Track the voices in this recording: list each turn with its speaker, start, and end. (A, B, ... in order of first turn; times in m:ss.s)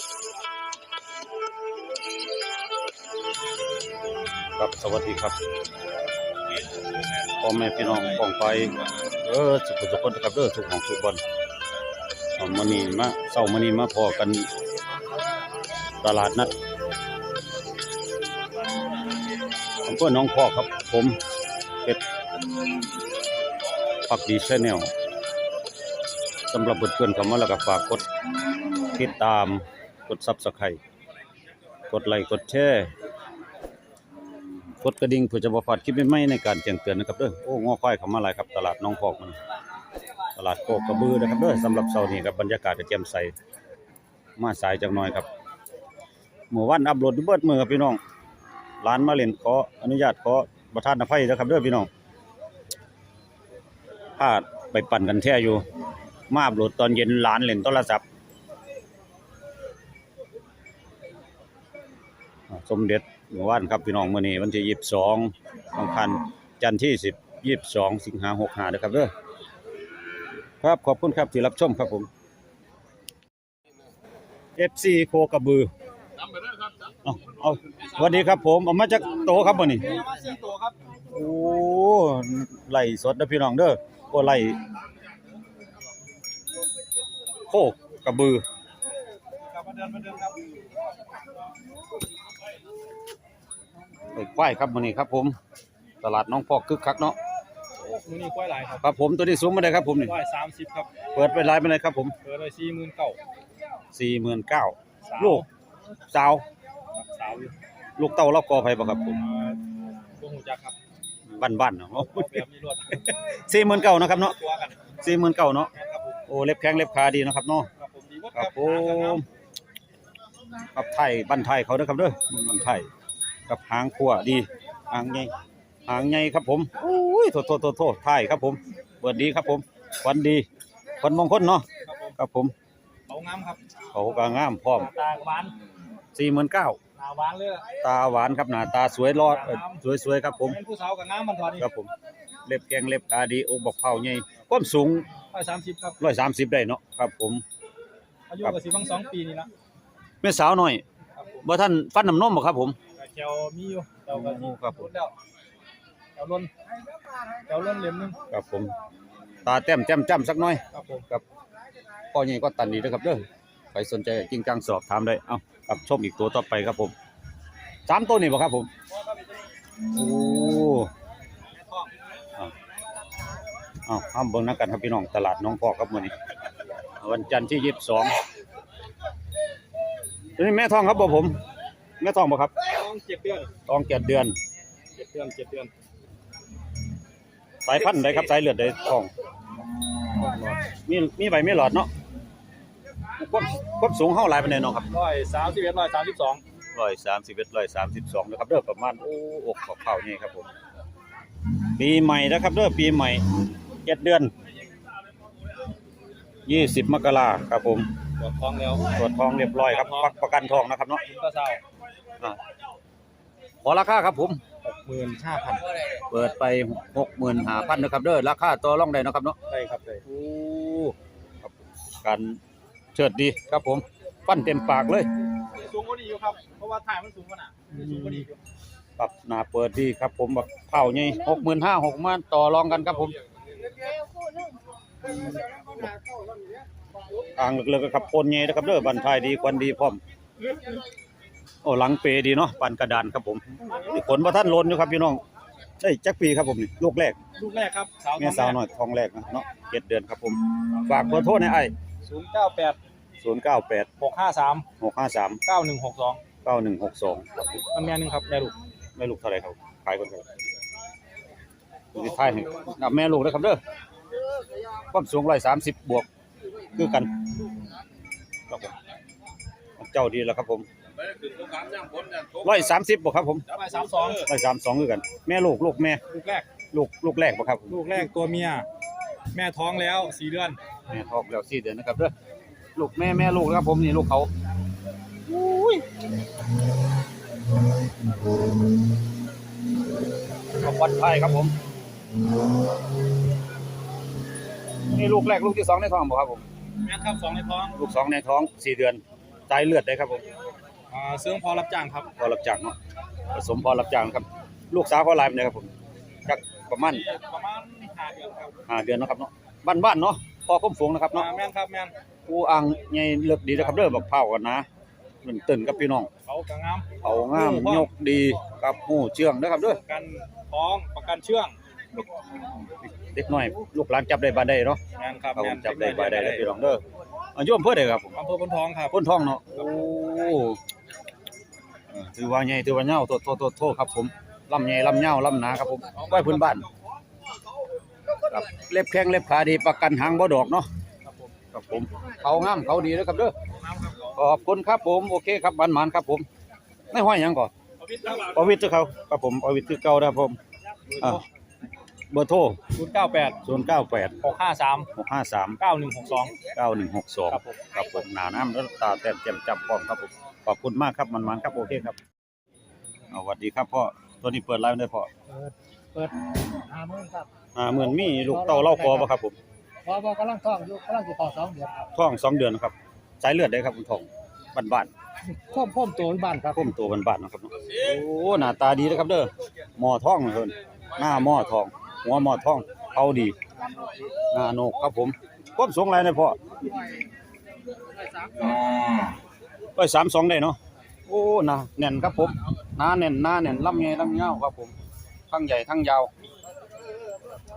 0:04.6-0:05.3 A
0:07.4-0:11.2 A
0:12.4-0:14.5 A
0:16.0-0:16.5 A
0:19.8-0:21.2 A
0:24.1-0:24.9 A
0:26.5-0:28.0 A
0:28.9-0:30.8 A
0:31.9-0:32.9 A
0:34.8-0:39.4 A
0:40.4-0:43.3 A
0:44.4-0:45.2 A
0:46.5-0:48.0 A
0:48.8-0:51.9 A
0:54.2-0:55.6 A
0:56.3-0:58.0 A
1:02.5-1:09.1 A
1:10.6-1:12.1 A
1:14.6-1:15.7 A
1:17.0-1:20.0 A
1:19.6-1:20.9 B
1:21.1-1:24.6 A
1:27.5-1:28.4 A
1:29.5-1:30.4 B
1:34.1-1:35.4 A
1:36.0-1:37.2 A
1:37.8-1:38.8 B
1:38.8-1:40.2 A
1:40.0-1:40.9 B
1:41.1-1:42.1 A
1:42.2-1:43.2 B
1:43.9-1:45.4 A
1:45.1-1:45.4 B
1:46.1-1:46.4 A
1:47.0-1:47.5 B
1:48.0-1:49.2 A
1:49.2-1:49.6 B
1:50.2-1:50.8 B
1:51.3-1:52.4 A
1:52.0-1:53.1 B
1:53.1-1:54.3 A
1:54.1-1:55.0 B
1:55.0-1:55.7 A
1:55.8-1:56.2 B
1:56.3-1:57.7 A
1:57.8-1:59.2 B
1:58.3-1:59.2 A
2:00.7-2:02.9 A
2:03.5-2:05.3 A
2:05.9-2:10.4 A
2:11.0-2:12.5 A
2:11.8-2:12.1 B
2:13.1-2:13.6 B
2:13.9-2:14.9 A
2:14.8-2:15.5 B
2:16.1-2:16.8 A
2:17.0-2:17.6 B
2:17.8-2:20.6 A
2:19.2-2:19.8 B
2:20.5-2:21.7 B
2:21.6-2:21.9 A
2:22.4-2:25.1 A
2:25.3-2:26.0 B
2:26.0-2:27.4 A
2:28.3-2:29.5 B
2:30.2-2:30.8 A
2:31.4-2:32.8 A
2:33.0-2:35.1 B
2:34.1-2:34.9 A
2:36.2-2:36.5 B
2:37.5-2:38.2 B
2:38.3-2:38.7 A
2:39.4-2:41.2 A
2:40.7-2:41.0 B
2:42.1-2:46.9 A
2:47.9-2:48.7 A
2:49.9-2:50.9 A
2:53.8-2:56.1 A
2:57.0-2:58.1 A
3:00.4-3:01.4 A
3:02.0-3:02.5 A
3:02.6-3:03.5 B
3:03.7-3:04.3 A
3:04.9-3:05.7 B
3:07.6-3:09.1 A
3:10.2-3:10.6 B
3:10.8-3:11.9 A
3:13.2-3:14.9 A
3:14.9-3:16.4 B
3:16.7-3:20.5 A
3:21.7-3:24.3 A
3:26.4-3:27.9 A
3:28.2-3:28.9 B
3:28.9-3:31.0 A
3:29.5-3:30.1 B
3:31.1-3:31.6 B
3:33.6-3:34.4 A
3:34.6-3:35.7 B
3:36.1-3:39.4 A
3:39.5-3:40.0 B
3:40.0-3:42.4 A
3:42.9-3:45.1 A
3:45.6-3:48.3 B
3:49.0-3:53.2 A
3:57.4-4:00.0 A
4:01.6-4:05.2 A
4:05.8-4:07.2 A
4:07.4-4:08.6 B
4:08.2-4:11.7 A
4:12.0-4:12.8 B
4:13.2-4:13.9 A
4:14.0-4:14.6 B
4:14.8-4:15.4 A
4:15.4-4:16.2 B
4:16.4-4:17.6 A
4:17.7-4:18.5 B
4:19.0-4:20.2 A
4:21.9-4:23.6 A
4:24.9-4:26.1 A
4:26.7-4:27.1 A
4:28.5-4:28.7 A
4:29.8-4:30.7 A
4:31.8-4:33.4 A
4:33.5-4:34.3 B
4:34.2-4:36.0 A
4:36.1-4:36.5 B
4:36.7-4:38.0 A
4:37.7-4:38.7 B
4:39.3-4:40.6 B
4:40.9-4:42.1 A
4:42.8-4:44.3 A
4:45.3-4:45.8 A
4:50.6-4:51.5 A
4:54.8-4:56.4 A
4:56.8-4:57.8 B
4:57.7-5:00.2 A
5:00.9-5:02.1 B
5:02.2-5:02.8 A
5:03.3-5:05.7 A
5:06.2-5:07.1 A
5:07.0-5:08.5 B
5:08.7-5:11.3 A
5:11.2-5:11.9 B
5:12.2-5:14.7 A
5:15.2-5:16.1 A
5:16.2-5:17.9 B
5:17.0-5:19.8 A
5:19.8-5:21.6 B
5:22.8-5:24.8 A
5:25.0-5:26.5 B
5:25.4-5:26.8 A
5:27.4-5:28.2 A
5:28.2-5:28.9 B
5:28.9-5:30.6 A
5:31.9-5:36.7 A
5:35.9-5:36.7 B
5:38.1-5:40.7 A
5:41.0-5:41.3 B
5:41.5-5:43.3 A
5:43.6-5:44.1 B
5:44.2-5:46.2 A
5:46.9-5:47.5 A
5:47.8-5:48.3 B
5:48.2-5:50.4 A
5:52.1-5:52.6 A
5:52.8-5:53.4 B
5:53.4-5:54.2 A
5:54.2-5:54.9 B
5:54.9-5:55.6 A
5:55.6-5:56.4 B
5:56.5-6:02.0 A
5:57.3-5:57.7 B
6:03.1-6:05.1 A
6:05.3-6:07.3 C
6:07.6-6:09.4 A
6:08.3-6:09.1 C
6:09.9-6:11.9 C
6:11.9-6:14.9 A
6:15.3-6:16.6 C
6:16.4-6:23.4 A
6:24.3-6:26.4 A
6:29.8-6:34.7 A
6:35.3-6:36.1 A